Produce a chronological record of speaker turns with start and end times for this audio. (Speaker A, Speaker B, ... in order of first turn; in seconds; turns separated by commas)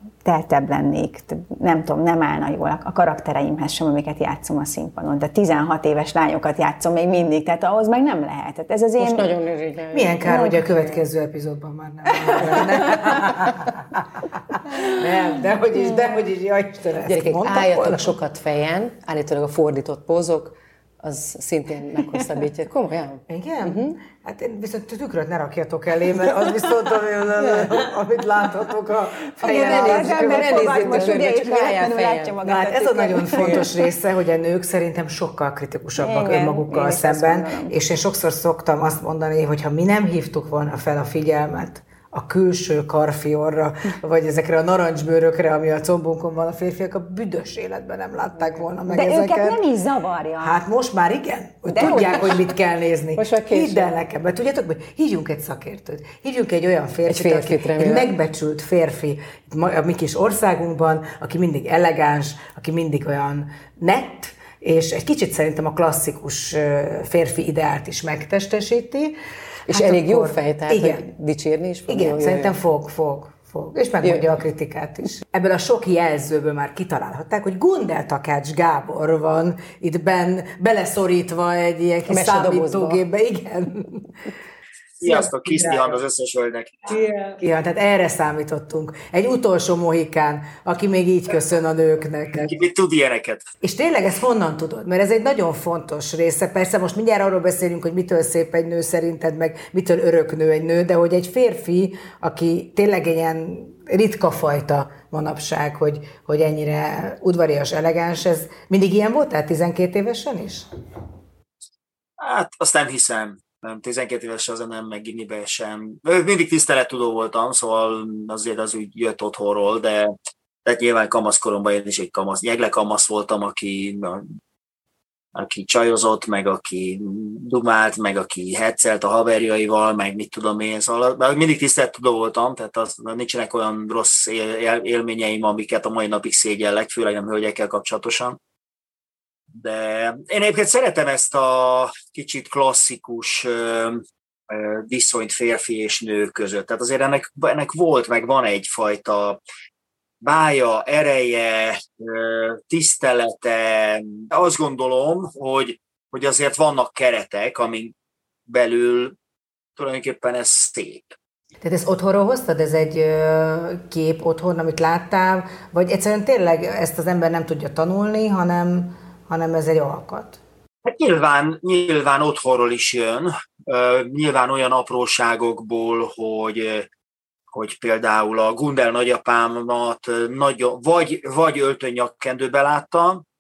Speaker A: 0.2-9.3, Speaker B: 9.0-10.5, Speaker C: 9.9-18.1, Speaker A: 10.2-10.9, Speaker A: 12.2-13.1, Speaker B: 17.1-24.0, Speaker C: 23.3-31.2, Speaker B: 29.4-32.4, Speaker A: 29.4-33.7, Speaker C: 32.4-49.6, Speaker B: 33.4-33.7, Speaker A: 36.0-37.8, Speaker A: 48.9-50.6, Speaker C: 50.4-69.2, Speaker A: 51.7-52.4, Speaker B: 51.8-52.1, Speaker B: 53.2-53.9, Speaker B: 57.1-58.1, Speaker B: 69.7-72.5, Speaker C: 69.7-71.1, Speaker C: 71.9-84.1, Speaker B: 74.0-74.3, Speaker B: 82.1-83.0, Speaker D: 85.0-87.1, Speaker C: 87.4-92.5, Speaker D: 92.3-93.5, Speaker C: 93.6-110.7, Speaker D: 112.2-120.1, Speaker D: 120.7-124.3, Speaker D: 125.3-138.4, Speaker D: 139.5-149.4, Speaker D: 150.2-157.9, Speaker D: 158.5-159.2, Speaker D: 159.8-161.2, Speaker C: 161.6-170.4, Speaker D: 170.8-176.9, Speaker D: 177.5-183.2